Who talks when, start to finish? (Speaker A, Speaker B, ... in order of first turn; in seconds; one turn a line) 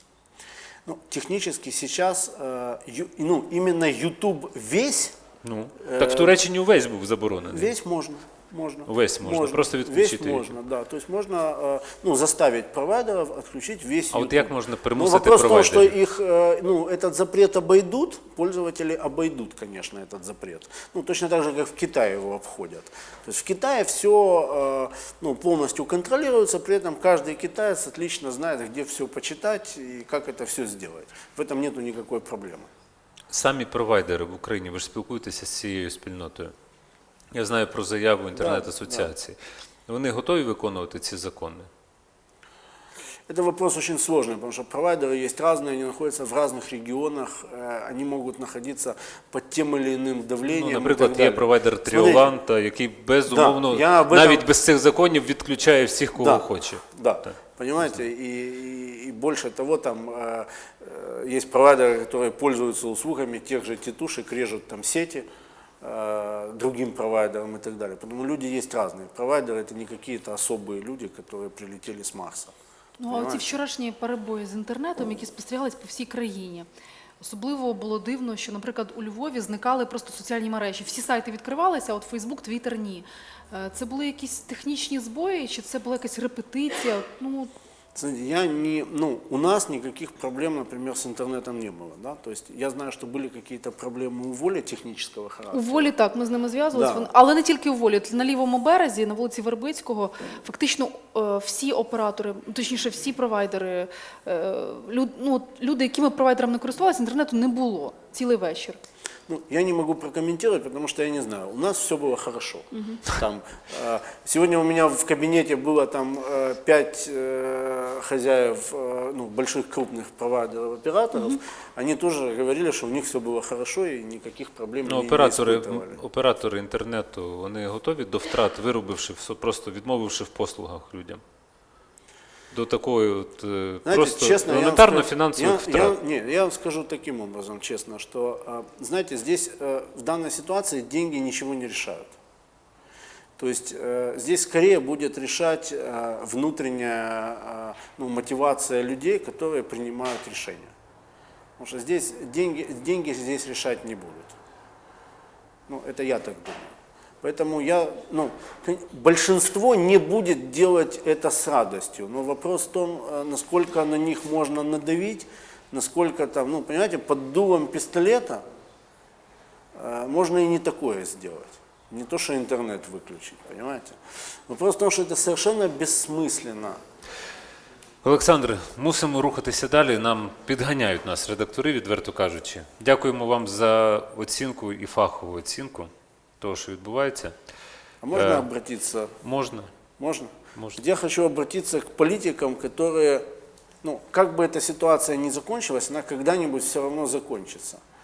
Speaker A: 0.9-5.2
Speaker B: 5.4-7.7
Speaker A: 5.8-6.4
Speaker A: 7.5-32.7
Speaker B: 8.9-10.6
Speaker B: 14.1-16.0
Speaker B: 33.3-36.5
Speaker B: 37.3-41.7
Speaker A: 38.4-39.1
Speaker A: 43.3-52.3
Speaker B: 50.4-57.3
Speaker A: 53.3-54.5
Speaker A: 56.1-65.2
Speaker A: 65.8-72.5
Speaker C: 73.0-76.7
Speaker A: 73.1-73.5
Speaker C: 77.2-87.5
Speaker A: 88.0-95.9
Speaker C: 95.5-108.8
Speaker A: 96.7-97.1
Speaker A: 109.3-126.0
Speaker C: 112.8-113.0
Speaker B: 124.8-131.2
Speaker B: 132.5-136.0
Speaker A: 133.8-142.1
Speaker A: 143.4-150.7
Speaker A: 151.6-154.4
Speaker A: 155.7-168.4
Speaker A: 169.8-176.8
Speaker B: 178.0-187.3
Speaker A: 188.0-189.2
Speaker B: 188.1-188.5
Speaker B: 189.2-189.7
Speaker A: 190.0-193.3
Speaker B: 190.6-190.8
Speaker A: 193.8-197.8